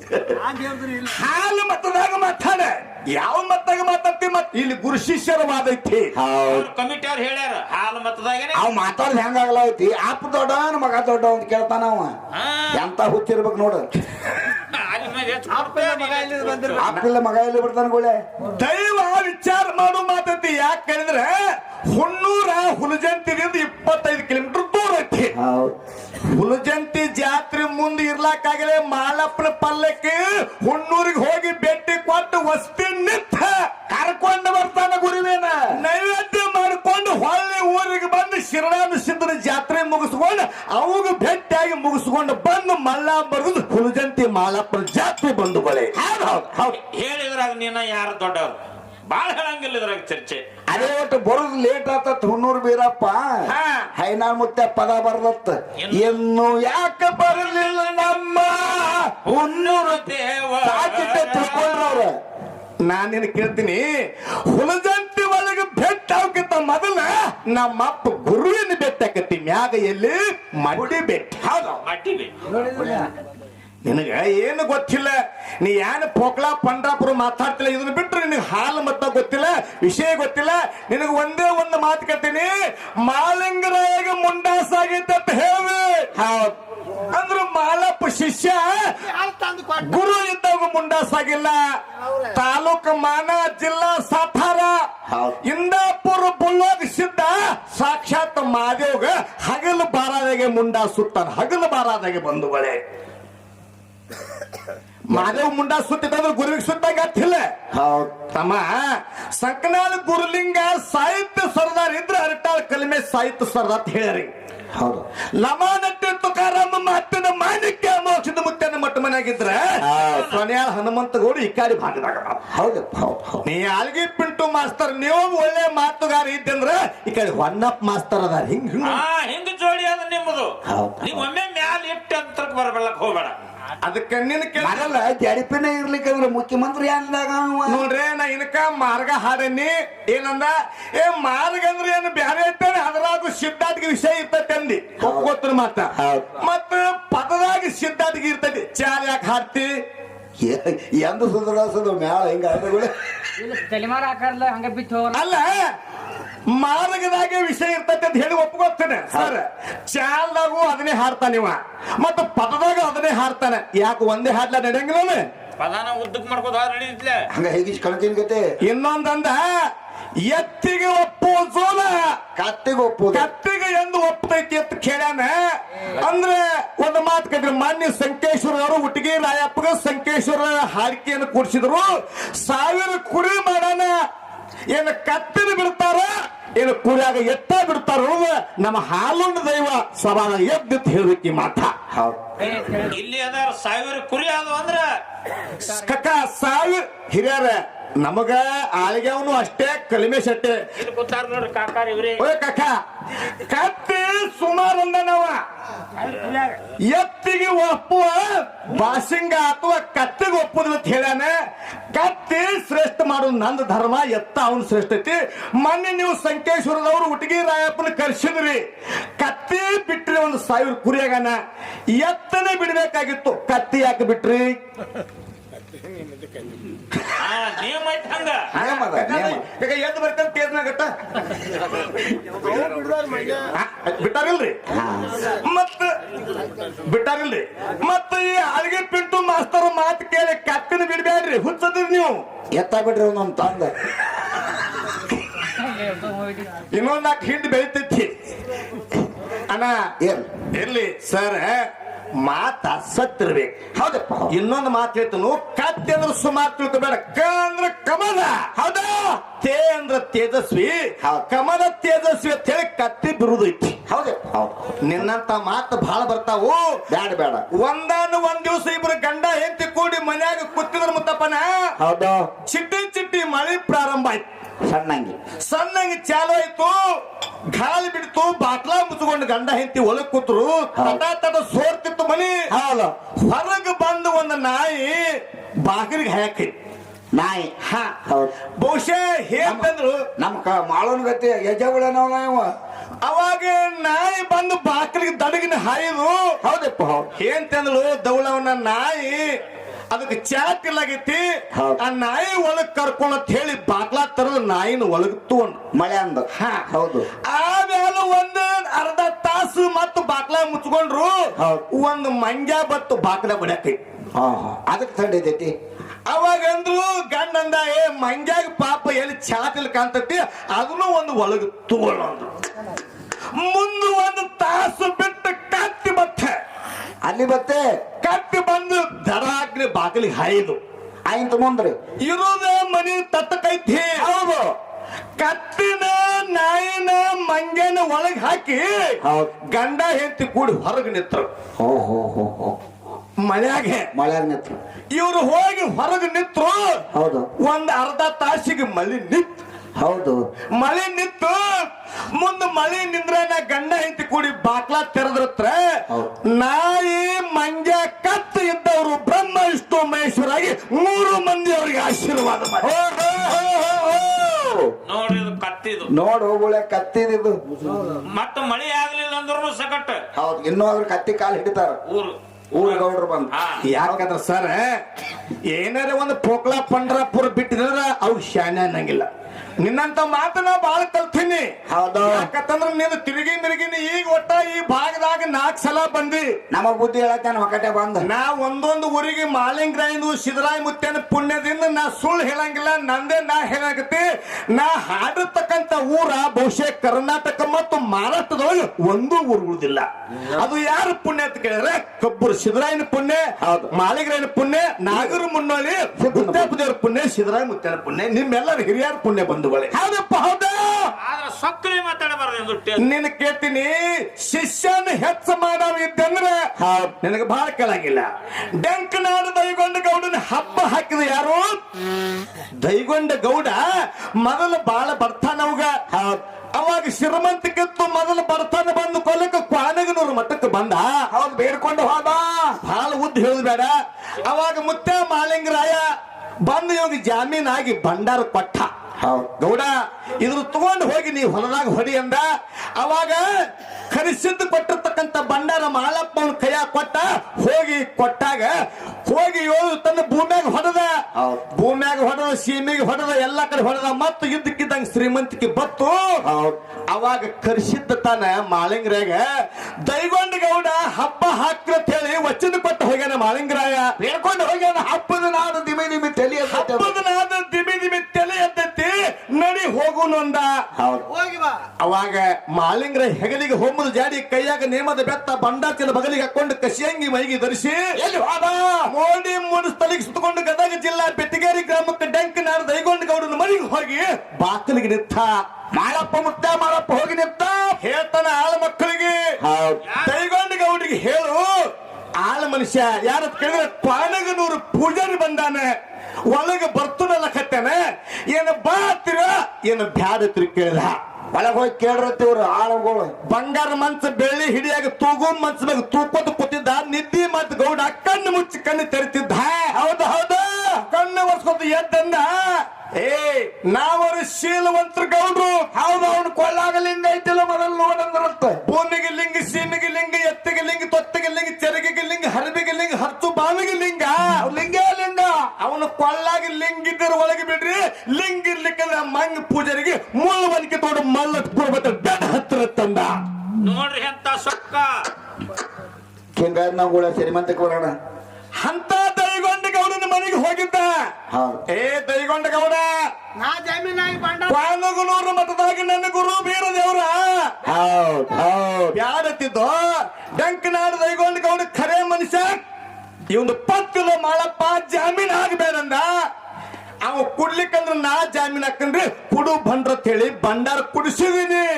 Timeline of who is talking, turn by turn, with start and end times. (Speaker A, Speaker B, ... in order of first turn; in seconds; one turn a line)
Speaker A: 0.2-6.1
Speaker B: 6.1-6.7
Speaker C: 6.4-8.6
Speaker B: 8.5-12.1
Speaker C: 12.3-12.8
Speaker B: 12.7-13.8
Speaker C: 14.6-16.9
Speaker D: 15.5-16.9
Speaker B: 16.8-18.1
Speaker A: 18.4-21.4
Speaker A: 21.9-25.3
Speaker B: 25.4-25.7
Speaker A: 26.3-33.6
Speaker B: 33.9-35.8
Speaker A: 35.7-45.9
Speaker B: 45.9-46.8
Speaker C: 46.5-48.6
Speaker C: 49.1-50.9
Speaker B: 50.7-60.0
Speaker A: 53.5-53.9
Speaker C: 55.8-56.2
Speaker C: 59.2-61.8
Speaker B: 60.6-62.1
Speaker A: 62.9-63.8
Speaker A: 64.5-71.4
Speaker B: 71.4-71.8
Speaker C: 71.8-72.4
Speaker B: 72.5-73.1
Speaker D: 72.6-73.0
Speaker A: 73.8-82.5
Speaker A: 83.0-86.1
Speaker B: 86.1-86.5
Speaker A: 87.0-91.6
Speaker D: 89.2-89.8
Speaker A: 92.2-94.8
Speaker B: 95.1-95.4
Speaker A: 95.4-102.8
Speaker A: 105.1-107.4
Speaker B: 105.1-105.4
Speaker B: 107.7-108.1
Speaker A: 108.3-108.8
Speaker A: 109.3-114.3
Speaker B: 114.7-115.0
Speaker A: 115.4-122.4
Speaker B: 119.8-120.3
Speaker C: 119.9-120.4
Speaker B: 122.5-123.4
Speaker A: 123.4-129.0
Speaker C: 128.8-133.3
Speaker B: 130.7-131.3
Speaker A: 133.8-134.9
Speaker B: 134.6-137.9
Speaker A: 137.7-149.7
Speaker B: 145.0-145.3
Speaker B: 145.9-146.4
Speaker B: 150.4-152.9
Speaker D: 153.4-155.2
Speaker A: 155.1-155.7
Speaker A: 156.5-165.2
Speaker C: 165.6-167.3
Speaker B: 167.3-168.4
Speaker A: 168.6-169.4
Speaker A: 170.3-172.2
Speaker B: 172.3-173.3
Speaker A: 173.1-183.9
Speaker A: 184.7-191.7
Speaker B: 191.9-192.2
Speaker C: 192.4-194.9
Speaker A: 195.6-200.6
Speaker C: 200.8-202.2
Speaker A: 202.2-202.7
Speaker A: 203.3-205.4
Speaker C: 206.2-206.4
Speaker A: 206.8-211.3
Speaker A: 211.9-218.6
Speaker A: 219.2-221.3
Speaker A: 221.9-224.5
Speaker C: 227.1-228.5
Speaker B: 228.5-229.4
Speaker A: 228.6-230.9
Speaker D: 232.5-233.4
Speaker A: 233.5-234.6
Speaker B: 234.7-235.3
Speaker A: 235.2-235.9
Speaker A: 236.8-242.2
Speaker B: 242.5-243.7
Speaker D: 245.6-246.5
Speaker A: 246.7-248.1
Speaker B: 250.0-250.2
Speaker A: 250.5-251.6
Speaker A: 252.2-253.5
Speaker B: 253.7-254.3
Speaker A: 254.3-258.5
Speaker B: 258.6-259.2
Speaker A: 259.4-263.8
Speaker B: 263.9-264.8
Speaker A: 264.8-266.6
Speaker B: 266.9-267.4
Speaker A: 267.5-271.5
Speaker B: 271.8-272.3
Speaker A: 272.4-274.2
Speaker B: 274.6-275.2
Speaker A: 275.4-276.8
Speaker A: 277.5-282.3
Speaker B: 280.8-281.0
Speaker B: 282.5-282.9
Speaker A: 283.2-285.1
Speaker A: 285.6-286.5
Speaker B: 287.1-287.5
Speaker A: 287.6-288.0
Speaker B: 288.1-288.3
Speaker A: 288.6-290.0
Speaker B: 289.4-292.5
Speaker A: 293.0-296.2
Speaker B: 296.4-297.1
Speaker A: 297.1-299.2
Speaker A: 299.9-301.2
Speaker B: 301.5-301.8
Speaker A: 301.8-305.6
Speaker B: 305.7-307.1
Speaker A: 306.3-306.6
Speaker A: 307.2-311.1
Speaker B: 311.4-311.6
Speaker A: 311.7-313.8
Speaker B: 314.1-315.5
Speaker A: 316.1-322.3
Speaker A: 323.4-326.3
Speaker B: 327.0-327.6
Speaker A: 328.0-330.6
Speaker B: 331.1-331.7
Speaker A: 332.1-334.1
Speaker B: 334.0-334.5
Speaker A: 335.2-339.0
Speaker B: 339.0-339.3
Speaker A: 339.5-341.3
Speaker B: 341.6-342.6
Speaker A: 343.2-343.9
Speaker B: 343.9-344.6
Speaker A: 344.9-346.8
Speaker B: 346.9-347.3
Speaker A: 347.4-349.4
Speaker B: 349.8-350.2
Speaker A: 350.6-351.5
Speaker A: 352.1-355.6
Speaker A: 356.3-362.7
Speaker B: 362.6-364.7
Speaker C: 364.9-365.9
Speaker B: 365.9-367.4
Speaker C: 368.0-370.0
Speaker B: 370.1-371.8
Speaker C: 371.9-373.6
Speaker B: 372.5-374.0
Speaker A: 373.6-374.6
Speaker A: 375.5-379.1
Speaker A: 379.6-381.5
Speaker B: 381.7-382.3
Speaker A: 382.0-386.3
Speaker B: 386.5-388.1
Speaker A: 388.0-409.8
Speaker B: 403.4-403.7
Speaker B: 404.9-405.2
Speaker B: 406.0-406.6
Speaker B: 409.7-410.9
Speaker C: 411.0-412.8
Speaker A: 412.8-416.5
Speaker B: 416.6-416.9
Speaker A: 417.0-421.6
Speaker A: 422.6-425.7
Speaker B: 425.9-426.2
Speaker A: 426.6-430.9
Speaker B: 431.1-432.6
Speaker A: 432.6-433.7
Speaker A: 434.2-435.8
Speaker A: 436.4-438.7
Speaker B: 439.0-439.3
Speaker A: 439.4-442.2
Speaker A: 442.8-443.2
Speaker A: 443.9-450.9
Speaker B: 451.2-451.4
Speaker A: 451.6-456.0
Speaker B: 456.2-456.6
Speaker A: 456.9-459.2
Speaker A: 459.8-463.9
Speaker B: 464.0-466.9
Speaker A: 466.4-470.5
Speaker B: 470.8-471.1
Speaker A: 471.8-477.8
Speaker B: 478.0-478.9
Speaker A: 478.9-485.3
Speaker B: 485.7-487.8
Speaker A: 487.8-489.1
Speaker B: 489.4-489.8
Speaker A: 490.0-491.5
Speaker A: 492.2-495.7
Speaker A: 496.3-497.8
Speaker A: 498.3-500.9
Speaker B: 501.3-503.1
Speaker A: 503.3-509.8
Speaker B: 509.7-510.8
Speaker A: 510.9-512.3
Speaker A: 513.0-515.7
Speaker B: 515.7-518.6
Speaker A: 518.6-524.3
Speaker B: 524.4-525.5
Speaker A: 525.6-533.1
Speaker C: 533.6-535.0
Speaker B: 536.4-537.9
Speaker A: 538.6-540.9
Speaker B: 541.3-541.6
Speaker A: 541.7-542.9
Speaker D: 543.4-544.5
Speaker A: 544.4-547.5
Speaker B: 547.7-549.0
Speaker A: 548.9-552.6
Speaker A: 553.3-556.1
Speaker A: 557.0-561.7